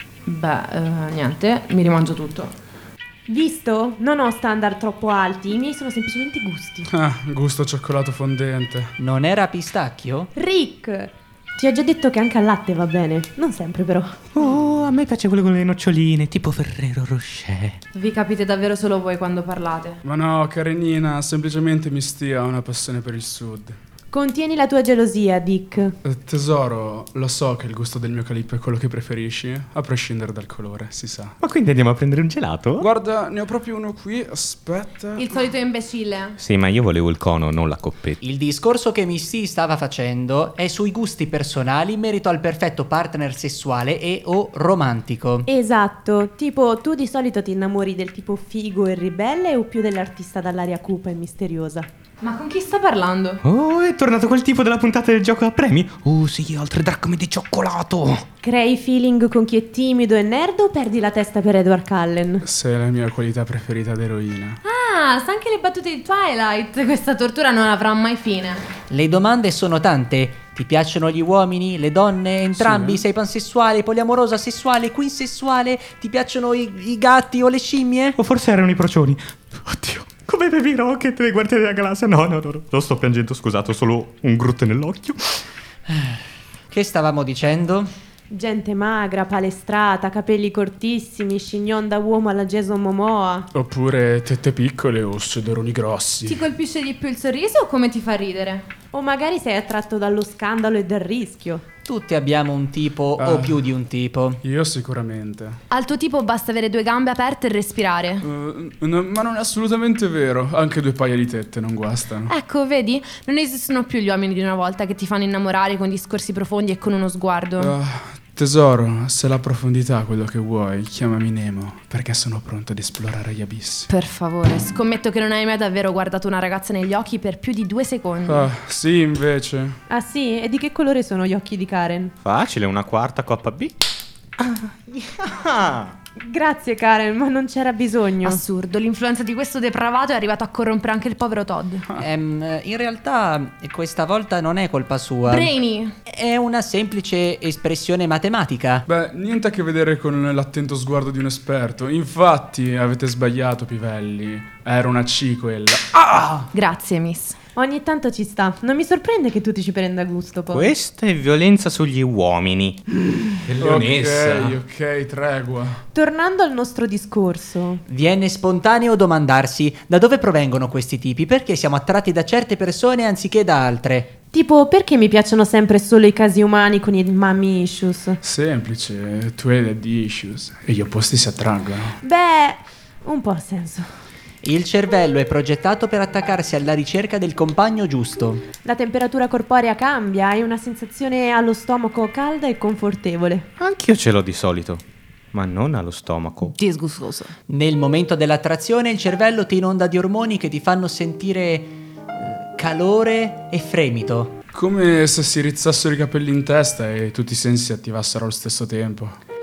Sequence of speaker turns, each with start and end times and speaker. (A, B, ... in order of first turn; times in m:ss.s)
0:00.2-0:02.6 A
0:03.3-0:06.9 B
0:06.9-0:08.9 C
0:09.0-0:10.3 D
0:10.4-0:14.2 B
0:14.3-0:17.8 E
0:17.9-0:20.0 A
0:20.0-0:23.8 C
0:24.1-0:26.0 B
0:26.0-0:31.4 C
0:31.4-0:32.9 E
0:32.8-0:35.3 C
0:35.2-0:36.4 A
0:36.4-0:38.2 E
0:38.2-0:45.5 D
0:45.5-0:51.9 B
0:52.2-0:53.4 A
0:53.4-0:58.2 E
0:58.4-1:02.4 B
1:02.4-1:04.6 C
1:04.6-1:08.6 A
1:08.9-1:18.2 D
1:12.6-1:13.0 C
1:18.2-1:25.4 E
1:25.9-1:27.9 D
1:28.3-1:33.5 B
1:33.5-1:36.4 C
1:36.2-1:38.6 A
1:38.9-1:41.7 B
1:41.8-1:44.4 D
1:43.2-1:43.7 C
1:44.4-1:45.6 C
1:45.7-1:48.2 A
1:48.2-1:52.3 C
1:52.2-1:57.7 A
1:57.6-2:03.9 C
2:03.9-2:08.5 A
2:08.2-2:09.8 C
2:09.9-2:12.1 B
2:12.2-2:13.8 E
2:14.4-2:16.0 E
2:16.2-2:18.4 B
2:18.2-2:21.8 A
2:22.0-2:25.6 D
2:25.2-2:25.9 A
2:26.1-2:28.8 D
2:28.9-2:36.5 C
2:36.5-2:37.4 A
2:37.5-2:40.7 B
2:40.5-2:42.9 E
2:43.4-2:44.6 E
2:43.5-2:45.8 C
2:45.9-2:47.8 B
2:47.9-2:54.1 D
2:54.3-2:58.2 B
2:58.2-3:02.0 C
3:02.0-3:03.9 B
3:04.4-3:08.4 D
3:08.6-3:13.5 B
3:13.6-3:16.6 E
3:16.5-3:17.3 A
3:17.5-3:24.4 D
3:24.5-3:29.2 C